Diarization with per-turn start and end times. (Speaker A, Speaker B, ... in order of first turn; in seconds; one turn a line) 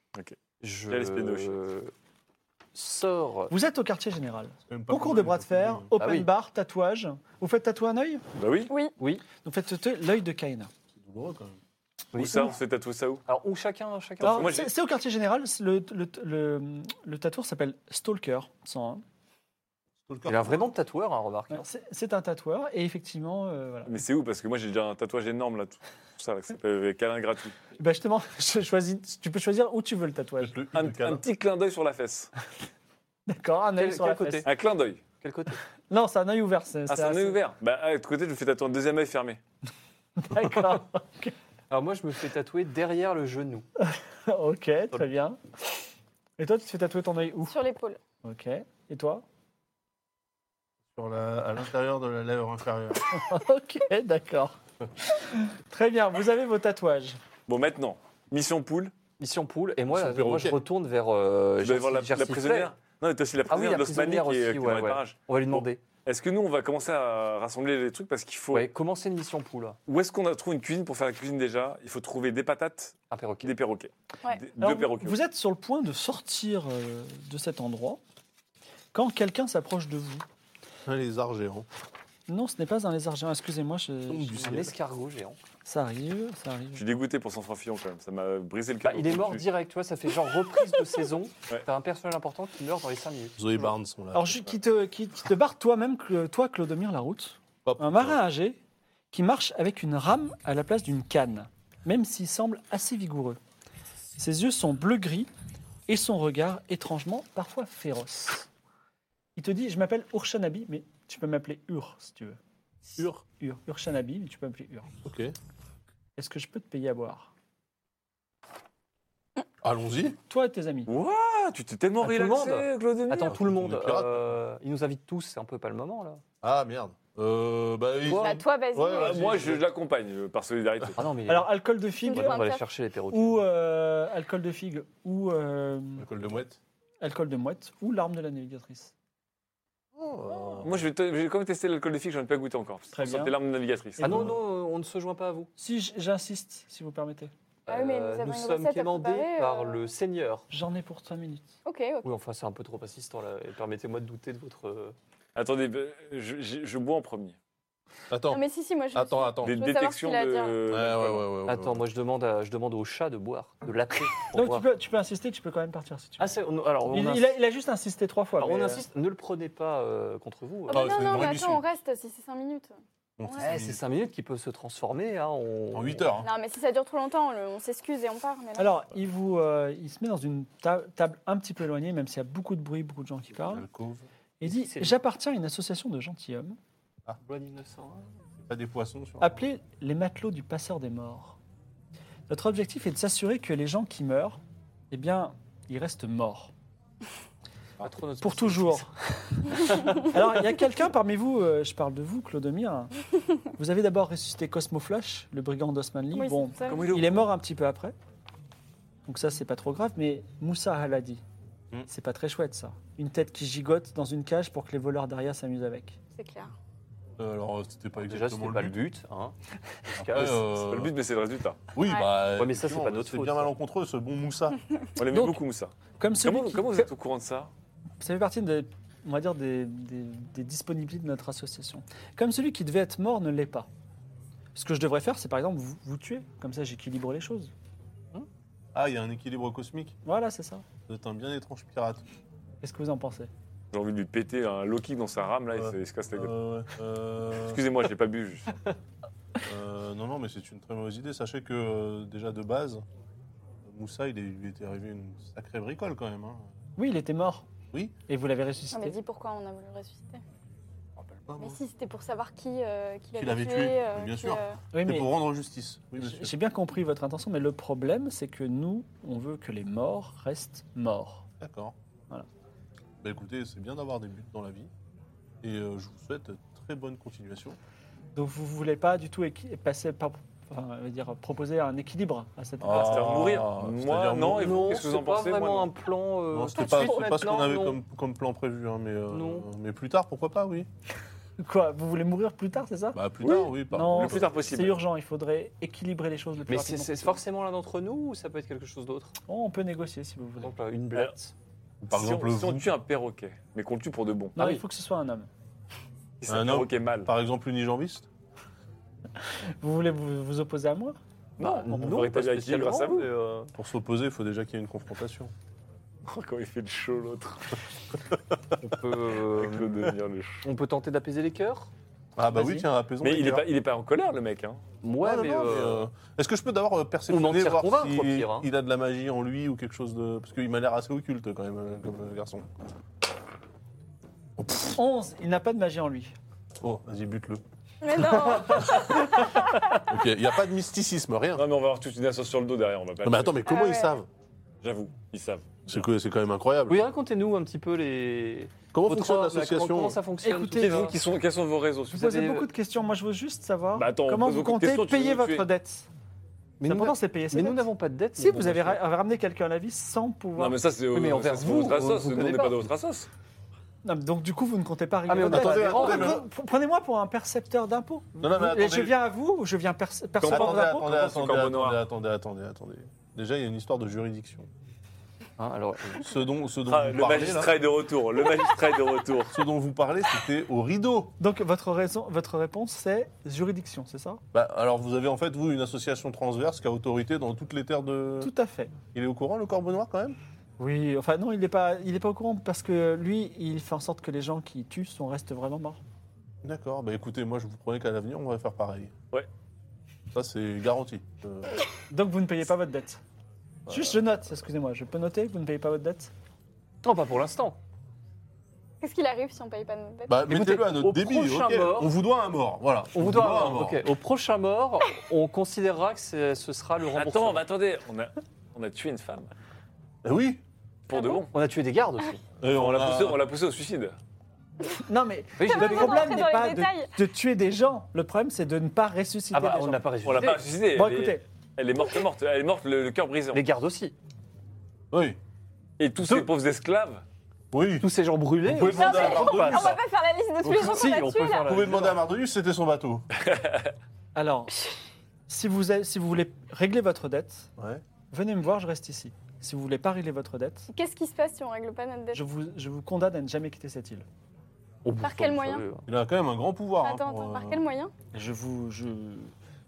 Speaker A: 0.6-1.9
Speaker B: 0.9-1.6
Speaker A: 2.7-3.5
Speaker C: 3.5-8.2
Speaker D: 4.7-5.9
Speaker A: 6.0-6.3
Speaker B: 8.4-8.7
Speaker E: 8.7-8.9
Speaker A: 9.0-9.2
Speaker C: 9.4-10.7
Speaker D: 11.0-11.6
Speaker A: 12.1-12.6
Speaker B: 12.1-13.2
Speaker A: 13.3-14.6
Speaker C: 14.2-19.0
Speaker B: 14.2-14.7
Speaker D: 20.1-20.7
Speaker A: 20.3-21.6
Speaker C: 21.5-24.0
Speaker B: 23.9-27.6
Speaker C: 27.8-30.6
Speaker D: 30.4-31.2
Speaker B: 30.7-32.3
Speaker C: 33.3-34.5
Speaker A: 33.8-34.5
Speaker B: 34.5-35.0
Speaker A: 35.2-35.6
Speaker C: 35.9-37.4
Speaker B: 36.9-39.4
Speaker C: 40.2-41.4
Speaker A: 41.7-43.6
Speaker C: 43.8-45.4
Speaker C: 46.4-47.5
Speaker E: 47.5-48.0
Speaker C: 48.2-49.2
Speaker D: 51.0-53.1
Speaker C: 53.1-54.6
Speaker C: 55.1-57.2
Speaker B: 57.5-59.0
Speaker A: 59.2-62.7
Speaker D: 59.9-60.6
Speaker B: 61.6-68.7
Speaker A: 63.5-65.8
Speaker A: 68.5-69.8
Speaker B: 69.9-75.2
Speaker A: 73.1-73.5
Speaker C: 74.6-78.0
Speaker C: 78.9-80.2
Speaker D: 80.9-81.7
Speaker C: 82.3-84.5
Speaker D: 84.1-84.8
Speaker A: 84.4-85.4
Speaker C: 85.7-86.8
Speaker B: 86.8-89.5
Speaker A: 88.8-93.4
Speaker D: 93.4-94.5
Speaker C: 94.1-98.6
Speaker D: 97.7-98.2
Speaker C: 99.1-103.4
Speaker C: 104.2-105.3
Speaker C: 105.9-108.5
Speaker C: 109.4-112.4
Speaker D: 113.0-113.2
Speaker C: 113.4-114.9
Speaker D: 115.0-115.3
Speaker C: 116.2-117.3
Speaker D: 119.6-120.2
Speaker C: 120.3-120.9
Speaker B: 120.9-123.4
Speaker A: 122.0-126.2
Speaker D: 123.3-124.2
Speaker D: 126.4-129.7
Speaker A: 128.1-128.4
Speaker E: 128.2-129.5
Speaker B: 128.9-131.0
Speaker A: 131.0-131.5
Speaker C: 131.3-132.4
Speaker E: 132.0-132.7
Speaker A: 132.1-133.4
Speaker C: 133.1-136.1
Speaker D: 136.0-136.6
Speaker C: 137.0-138.9
Speaker D: 140.0-140.9
Speaker B: 140.6-144.3
Speaker C: 142.9-143.3
Speaker A: 144.0-145.5
Speaker D: 144.0-144.4
Speaker C: 145.6-147.3
Speaker A: 147.7-150.5
Speaker E: 147.7-149.9
Speaker C: 150.5-151.5
Speaker E: 151.7-152.1
Speaker A: 152.0-154.9
Speaker B: 155.3-157.4
Speaker D: 158.1-159.6
Speaker E: 158.3-160.6
Speaker B: 159.4-161.3
Speaker D: 160.7-161.8
Speaker A: 161.5-164.7
Speaker C: 164.3-166.4
Speaker A: 166.2-167.3
Speaker C: 166.9-168.8
Speaker A: 168.4-171.1
Speaker E: 170.7-173.5
Speaker D: 170.7-171.6
Speaker D: 173.2-173.8
Speaker A: 173.4-176.1
Speaker D: 175.7-176.3
Speaker E: 176.2-178.7
Speaker C: 178.6-183.7
Speaker D: 183.3-184.1
Speaker C: 184.4-186.6
Speaker A: 184.4-185.0
Speaker A: 187.2-188.1
Speaker D: 188.4-189.4
Speaker C: 189.2-191.4
Speaker C: 192.3-194.4
Speaker C: 194.9-196.5
Speaker A: 197.8-198.9
Speaker C: 198.2-202.9
Speaker A: 199.6-200.1
Speaker C: 203.6-207.9
Speaker E: 206.1-207.0
Speaker B: 206.7-207.3
Speaker C: 209.1-211.2
Speaker C: 211.9-216.0
Speaker E: 216.2-216.5
Speaker D: 217.2-218.8
Speaker A: 218.1-219.3
Speaker A: 219.9-220.5
Speaker D: 219.9-220.9
Speaker B: 220.5-221.6
Speaker D: 221.8-224.6
Speaker E: 221.9-222.2
Speaker A: 222.3-223.5
Speaker B: 225.0-227.5
Speaker C: 225.0-225.4
Speaker C: 226.0-226.9
Speaker C: 228.0-233.7
Speaker C: 234.6-237.5
Speaker D: 238.7-240.0
Speaker C: 240.1-240.7
Speaker D: 240.9-242.0
Speaker C: 242.6-243.3
Speaker B: 243.7-246.3
Speaker D: 245.5-247.6
Speaker B: 247.5-248.6
Speaker D: 249.4-252.8
Speaker D: 253.7-256.5
Speaker C: 256.8-257.5
Speaker C: 258.1-259.0
Speaker E: 258.7-260.2
Speaker D: 261.1-261.6
Speaker E: 261.4-264.6
Speaker D: 263.2-266.3
Speaker C: 264.7-265.1
Speaker C: 266.0-271.3
Speaker D: 271.4-271.8
Speaker D: 273.0-274.7
Speaker D: 275.4-277.6
Speaker C: 278.1-283.2
Speaker D: 282.6-284.7
Speaker B: 282.7-285.7
Speaker A: 284.3-287.8
Speaker D: 286.3-290.7
Speaker E: 286.6-287.0
Speaker A: 289.1-289.5
Speaker C: 291.4-297.2
Speaker D: 292.9-294.4
Speaker B: 293.2-294.8
Speaker A: 296.5-299.1
Speaker C: 299.3-300.5
Speaker A: 300.4-301.3
Speaker D: 301.8-302.7
Speaker B: 301.9-304.4
Speaker C: 304.4-305.3
Speaker A: 304.4-304.6
Speaker B: 306.2-307.1
Speaker D: 306.3-308.1
Speaker C: 309.6-311.0
Speaker B: 311.4-313.1
Speaker A: 311.4-313.5
Speaker D: 313.6-315.3
Speaker B: 316.1-317.6
Speaker A: 318.6-319.7
Speaker B: 319.3-320.4
Speaker A: 320.4-321.7
Speaker D: 322.2-323.5
Speaker A: 322.3-322.6
Speaker B: 323.0-324.6
Speaker A: 324.8-325.9
Speaker D: 325.0-332.5
Speaker A: 327.1-328.5
Speaker D: 334.4-334.8
Speaker C: 334.8-336.1
Speaker D: 336.6-337.4
Speaker E: 337.8-339.8
Speaker C: 338.4-339.2
Speaker D: 339.8-341.4
Speaker B: 341.4-343.5
Speaker D: 343.0-344.1
Speaker E: 343.5-343.9
Speaker B: 344.6-345.9
Speaker D: 345.7-346.8
Speaker A: 346.7-351.1
Speaker D: 348.7-350.0
Speaker C: 350.2-350.9
Speaker B: 350.6-352.1
Speaker C: 351.9-355.9
Speaker A: 351.9-352.5
Speaker B: 353.8-355.5
Speaker A: 356.6-358.8
Speaker C: 356.6-357.6
Speaker C: 358.2-360.6
Speaker B: 360.4-363.1
Speaker A: 360.9-362.7
Speaker C: 363.8-370.9
Speaker A: 365.1-366.2
Speaker D: 365.2-366.3
Speaker D: 368.2-369.0
Speaker B: 370.2-371.8
Speaker D: 370.3-374.5
Speaker A: 375.4-376.1
Speaker D: 376.0-377.5
Speaker B: 376.7-379.4
Speaker D: 379.3-381.1
Speaker C: 381.2-384.2
Speaker D: 384.3-388.3
Speaker C: 388.2-388.7
Speaker D: 388.9-390.2
Speaker C: 390.6-395.8
Speaker D: 396.4-398.9
Speaker D: 400.1-401.6
Speaker C: 401.9-403.0
Speaker D: 403.7-404.0
Speaker C: 403.7-406.1
Speaker A: 406.8-407.6
Speaker E: 408.8-410.3
Speaker D: 410.1-413.9
Speaker A: 410.3-411.9
Speaker A: 412.9-417.4
Speaker B: 416.9-419.3
Speaker D: 420.0-420.4
Speaker B: 420.9-421.3
Speaker E: 420.9-421.2
Speaker A: 421.3-422.2
Speaker D: 422.4-423.2
Speaker B: 422.5-423.9
Speaker C: 424.7-429.9
Speaker A: 425.4-426.1
Speaker E: 425.5-426.9
Speaker A: 429.3-430.6
Speaker B: 430.1-433.4
Speaker C: 430.7-431.2
Speaker A: 433.3-433.9
Speaker D: 434.9-435.2
Speaker B: 435.8-437.0
Speaker A: 436.0-436.3
Speaker D: 437.5-437.9
Speaker A: 437.8-439.8
Speaker D: 438.4-439.8
Speaker E: 438.7-441.5
Speaker A: 440.4-442.0
Speaker D: 440.5-440.8
Speaker D: 441.4-443.1
Speaker B: 443.2-443.7
Speaker C: 444.1-444.5
Speaker C: 445.3-447.5
Speaker D: 447.6-447.8
Speaker C: 448.1-450.7
Speaker E: 450.7-452.2
Speaker C: 452.1-454.1
Speaker A: 454.8-455.9
Speaker E: 455.0-455.7
Speaker D: 455.9-457.6
Speaker E: 456.8-457.9
Speaker C: 458.1-459.3